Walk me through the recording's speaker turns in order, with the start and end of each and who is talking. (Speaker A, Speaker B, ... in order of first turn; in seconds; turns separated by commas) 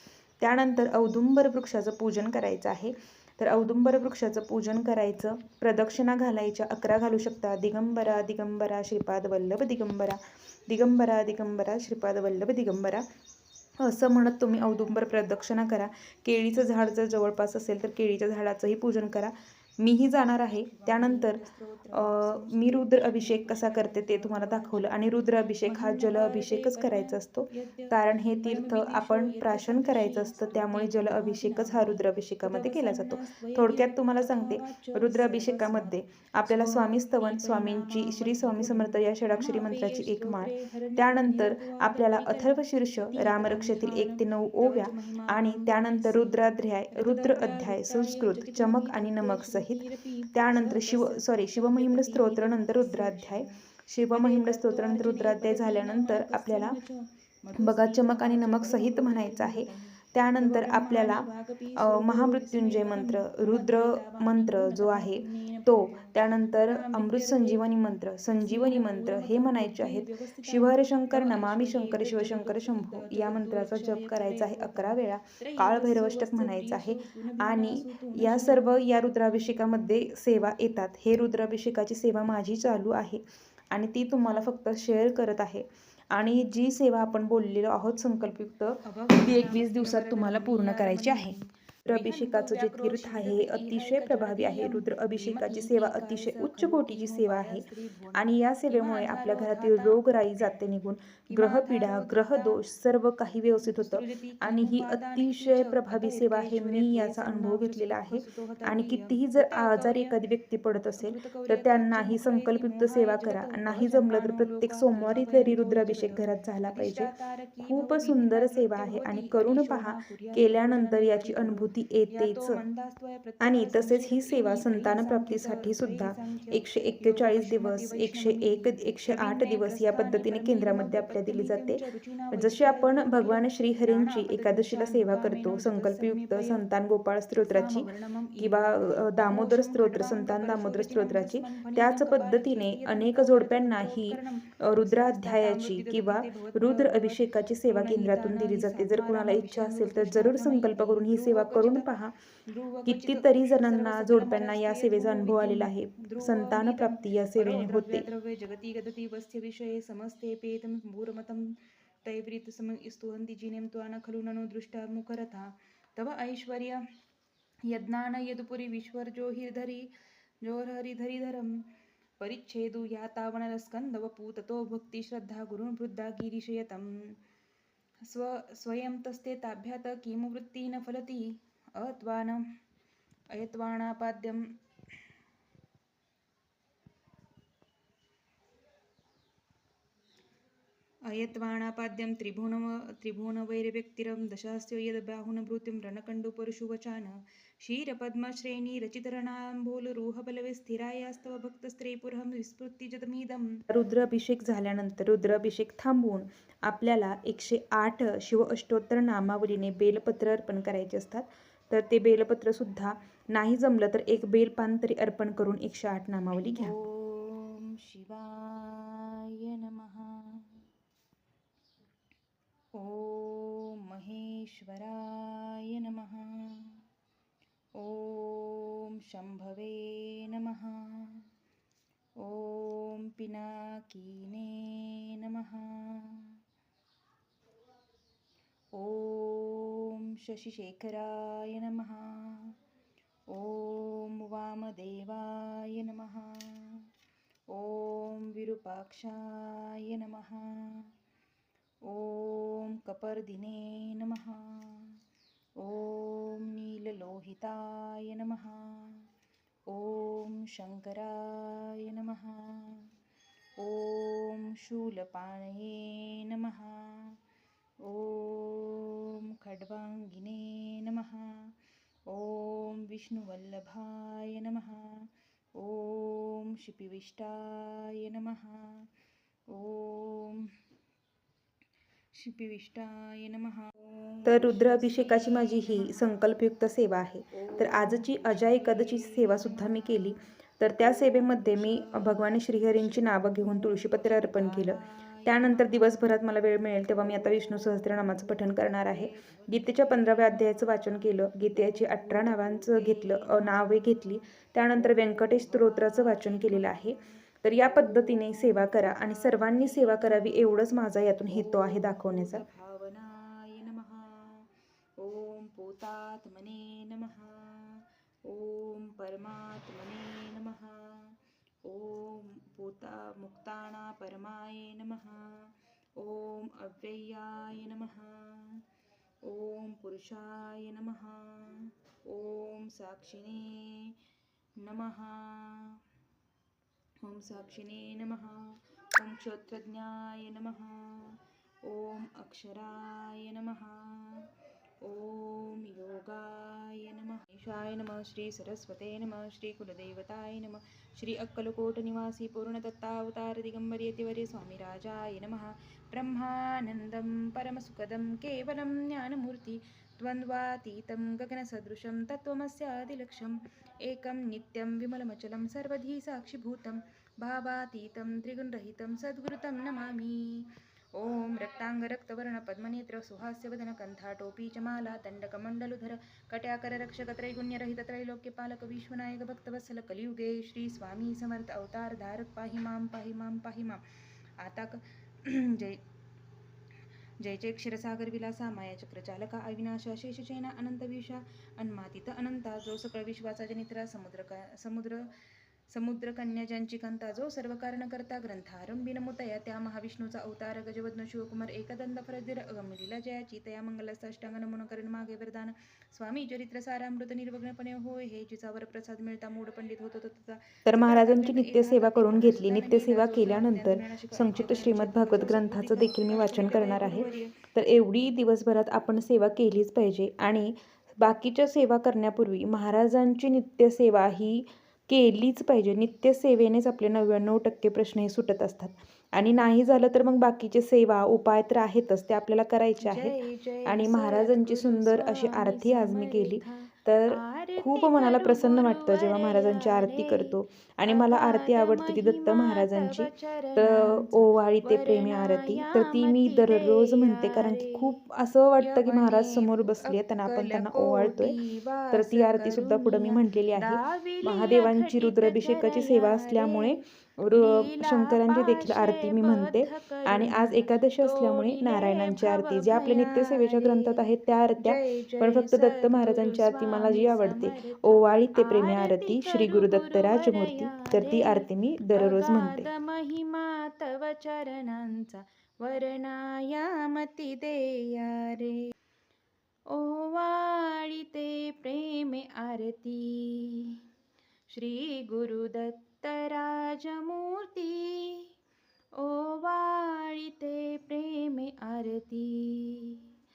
Speaker A: 0.4-13.1, Speaker A: 13.8-21.4, Speaker B: 20.5-25.1, Speaker A: 21.9-56.8, Speaker B: 25.6-67.7, Speaker A: 57.5-91.4, Speaker B: 68.4-78.8, Speaker B: 88.8-100.0, Speaker A: 91.9-117.1, Speaker B: 101.3-102.6, Speaker B: 103.6-110.2, Speaker B: 111.0-136.7, Speaker A: 117.7-122.6, Speaker A: 123.4-137.9, Speaker B: 137.5-151.9, Speaker A: 138.4-152.2, Speaker B: 152.5-166.8, Speaker A: 152.9-158.1, Speaker B: 167.7-169.9, Speaker B: 170.4-171.7, Speaker B: 172.2-177.2, Speaker B: 178.1-182.4, Speaker B: 183.3-184.4, Speaker B: 191.1-203.7, Speaker A: 203.7-216.8, Speaker B: 216.5-220.7, Speaker B: 222.7-226.8, Speaker B: 227.8-231.2, Speaker B: 232.2-236.4, Speaker B: 238.7-242.6, Speaker B: 243.3-246.9, Speaker B: 247.5-250.9, Speaker B: 251.8-255.0, Speaker B: 255.6-259.1, Speaker B: 259.7-262.9, Speaker B: 263.6-267.2, Speaker B: 267.8-271.5, Speaker B: 272.1-278.9, Speaker B: 279.5-280.5, Speaker B: 282.1-286.2, Speaker A: 284.3-312.4, Speaker B: 287.3-290.3, Speaker B: 290.8-292.2, Speaker B: 292.8-310.6, Speaker B: 311.3-328.6, Speaker B: 329.2-334.0, Speaker B: 334.6-335.8, Speaker B: 337.0-344.3, Speaker B: 344.8-383.8, Speaker B: 384.4-385.8, Speaker B: 387.2-395.1, Speaker B: 395.7-417.4, Speaker A: 410.7-451.4, Speaker B: 432.8-447.9, Speaker B: 448.6-464.0, Speaker A: 451.9-472.7, Speaker B: 464.6-478.7, Speaker B: 479.7-483.8, Speaker B: 484.5-488.3, Speaker B: 489.0-493.1